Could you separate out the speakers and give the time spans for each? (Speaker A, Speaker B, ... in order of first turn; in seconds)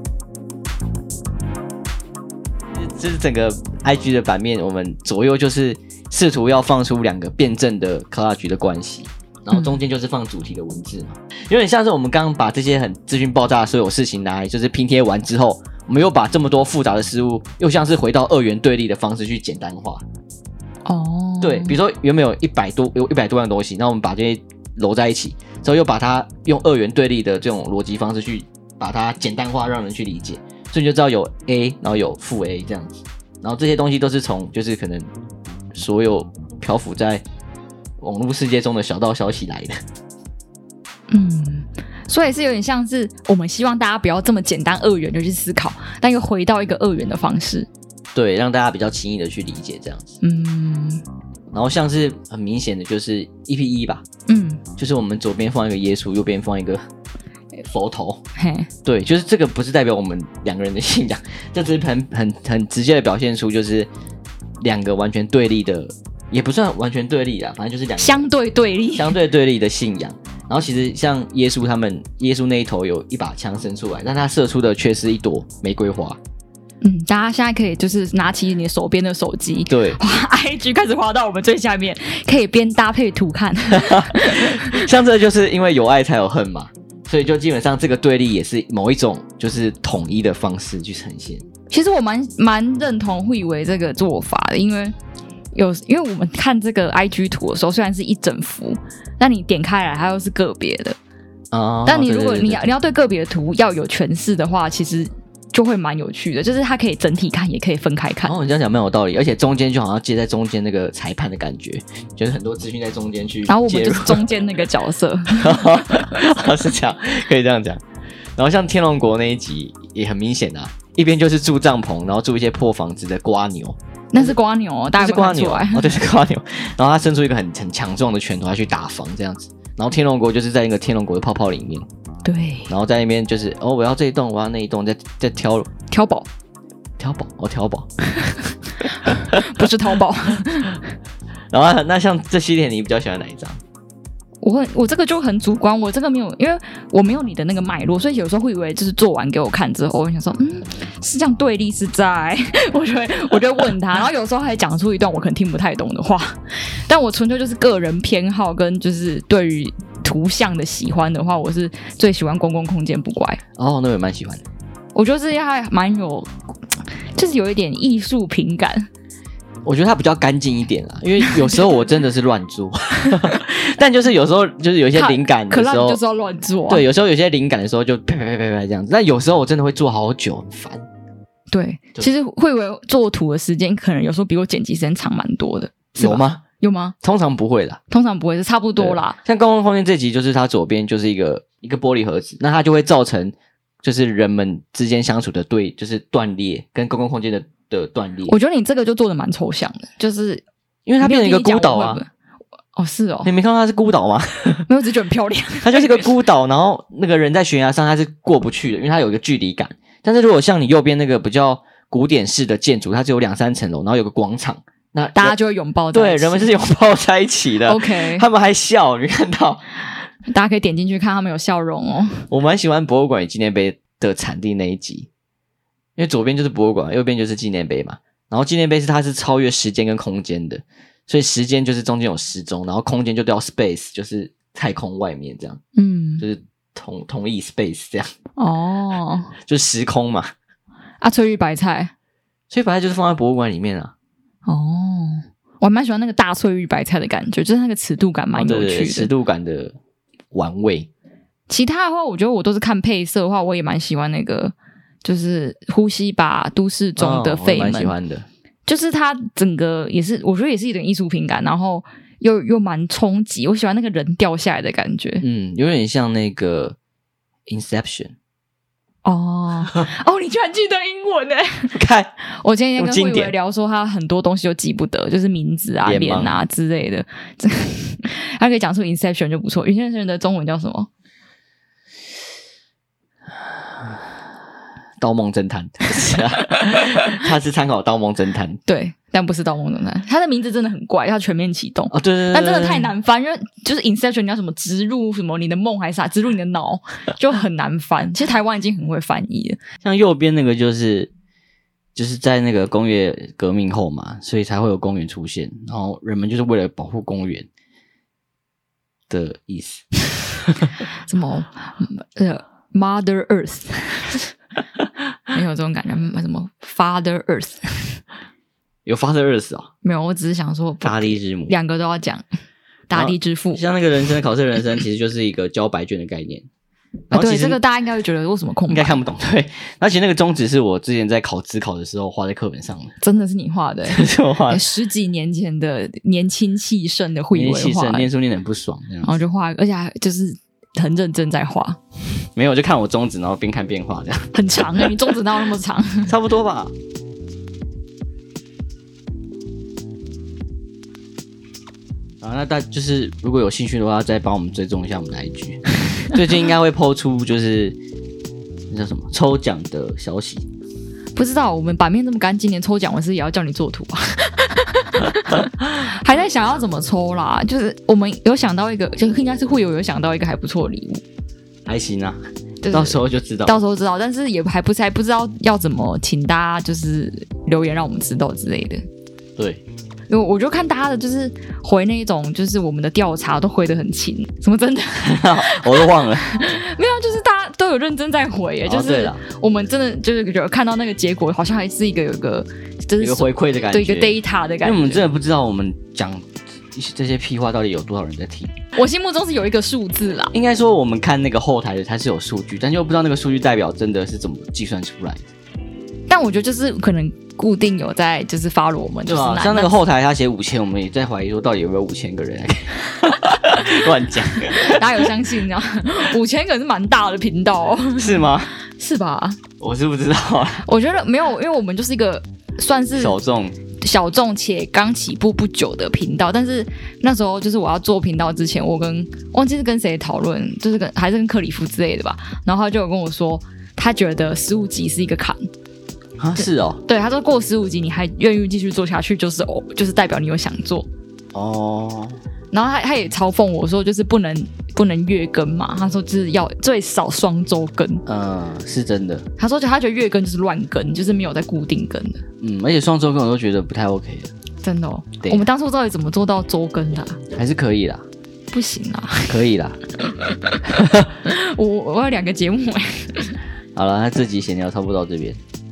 Speaker A: 2.7-20.0, 21.4-35.0, 35.7-37.2, 38.0-39.7, 48.1-50.2, 51.5-54.0, 54.8-56.8, 57.6-58.2, 58.8-63.9, 64.6-68.2, 68.9-76.2, 79.7-80.0, 83.7-91.4, 101.5-102.7, 108.2-114.3, 115.3-117.8, 118.3-124.3, 125.0-131.9, 132.7-135.7, 137.0-137.9, 139.1-139.7, 141.5-143.6, 163.6-164.4, 169.6-176.0, 176.7-180.8, 185.9-186.4, 187.0-187.8, 188.8-198.3, 200.8-202.0, 203.2-204.7, 205.6-215.3, 215.9-219.6, 222.3-225.1, 226.0-235.6, 236.2-238.1, 239.4-240.3, 242.5-243.9, 248.3-249.8, 250.3-250.9, 256.9-258.3, 265.2-266.8, 267.5-268.1, 271.7-272.1, 272.8-273.3, 275.8-276.3, 285.0-288.6, 291.9-292.9, 299.8-301.1, 301.9-307.5, 309.1-310.7, 318.9-319.7, 320.8-321.5, 322.9-326.5, 327.1-327.6, 328.7-332.9, 333.9-334.6, 337.3-339.1, 342.4-344.9, 346.1-346.7, 352.2-357.8, 358.7-360.4, 371.6-372.2, 372.7-373.6, 379.4-379.6, 385.0-386.3, 388.6-389.2, 393.0-398.5, 400.3-405.2, 409.1-415.1, 418.0-418.5, 419.6-420.6, 422.9-423.6, 436.2-436.8, 441.3-442.2, 448.1-449.2, 452.4-454.3, 457.3-458.0, 459.3-459.8, 460.6-461.1, 463.7-465.4
Speaker B: 20.9-21.8, 41.1-47.7, 50.2-51.0, 54.3-54.6, 58.4-58.7, 68.0-69.1, 76.8-84.8, 91.7-94.9, 95.5-101.0, 101.8-108.3, 113.5-116.1, 124.1-126.0, 132.2-132.7, 135.9-136.3, 138.2-140.9, 144.4-163.4, 164.9-166.3, 167.1-168.9, 174.9-176.8, 181.5-186.9, 187.9-189.2, 198.3-200.4, 201.0-202.1, 202.8-203.3, 204.7-206.1, 215.1-216.5, 217.7-218.2, 220.3-222.3, 235.8-236.2, 238.4-239.3, 241.0-241.9, 244.4-249.1, 251.5-257.9, 258.7-265.2, 269.0-271.7, 272.4-280.9, 286.5-287.0, 288.7-299.6, 311.1-314.3, 315.3-318.0, 319.8-322.2, 322.9-323.6, 327.1-329.0, 333.0-338.1, 339.0-341.8, 344.3-346.1, 361.1-371.0, 372.6-378.8, 380.1-395.0, 398.8-400.3, 406.1-409.7, 414.5-419.4, 420.6-423.2, 423.8-435.4, 436.4-440.9, 442.5-448.0, 449.4-452.2, 454.6-457.2, 458.5-459.4, 460.1-460.6, 461.2-463.4